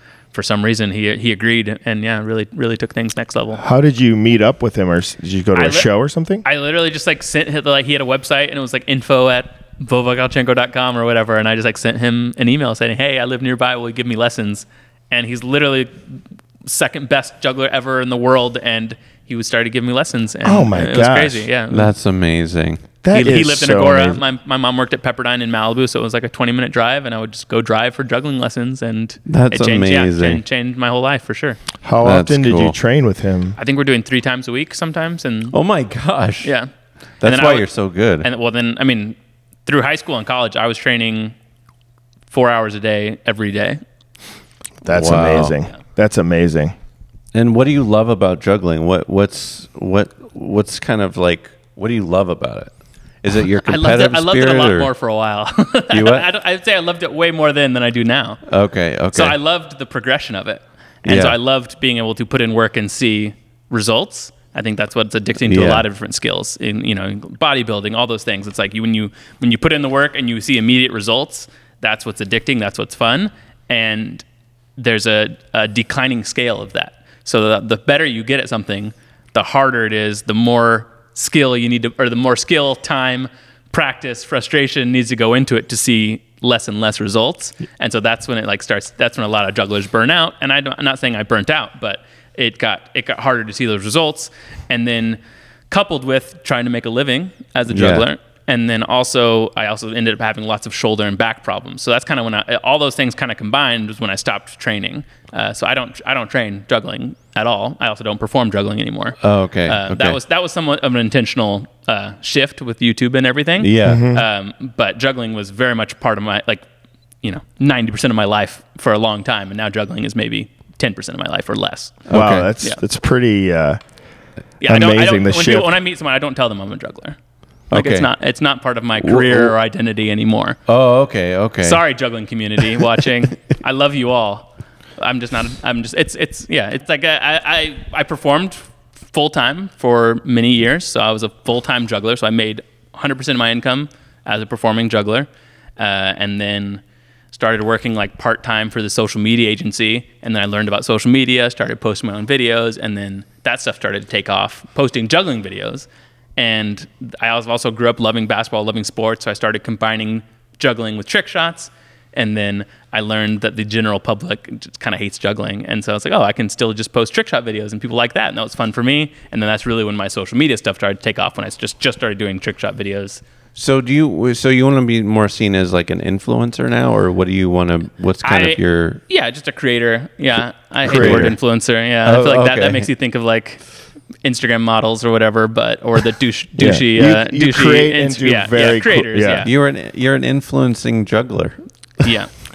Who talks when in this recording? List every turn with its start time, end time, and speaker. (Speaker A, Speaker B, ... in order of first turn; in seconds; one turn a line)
Speaker A: 0.3-3.6
Speaker B: 3.6-6.4
Speaker A: 5.5-5.9
Speaker A: 6.4-21.9
Speaker B: 20.4-21.5
Speaker C: 21.7-22.9
Speaker B: 23.0-24.2
Speaker A: 23.1-31.6
Speaker C: 29.2-30.4
Speaker B: 31.8-33.6
Speaker C: 32.0-32.8
Speaker A: 33.6-35.5
Speaker C: 35.5-36.5
Speaker A: 36.4-36.7
Speaker C: 37.2-38.3
Speaker A: 37.2-37.7
Speaker A: 38.2-41.4
Speaker A: 42.3-43.8
Speaker B: 44.8-46.7
Speaker C: 44.9-45.6
Speaker C: 47.3-54.9
Speaker A: 53.6-58.4
Speaker C: 55.9-56.2
Speaker C: 58.5-59.4
Speaker A: 59.1-74.2
Speaker C: 61.0-61.4
Speaker C: 65.4-65.8
Speaker A: 74.8-116.7
Speaker C: 97.7-98.0
Speaker C: 109.2-110.2
Speaker C: 113.6-114.1
Speaker B: 113.8-114.2
Speaker A: 117.2-122.1
Speaker C: 122.1-122.5
Speaker B: 122.1-123.8
Speaker A: 124.6-127.2
Speaker B: 124.7-125.7
Speaker C: 127.7-128.1
Speaker A: 127.7-130.6
Speaker C: 129.0-129.5
Speaker C: 130.7-131.8
Speaker A: 131.6-173.2
Speaker C: 173.6-179.0
Speaker A: 178.2-183.6
Speaker B: 180.8-181.3
Speaker C: 180.9-181.4
Speaker C: 182.0-182.9
Speaker A: 184.2-189.5
Speaker B: 186.6-189.5
Speaker C: 189.4-191.6
Speaker A: 192.0-192.3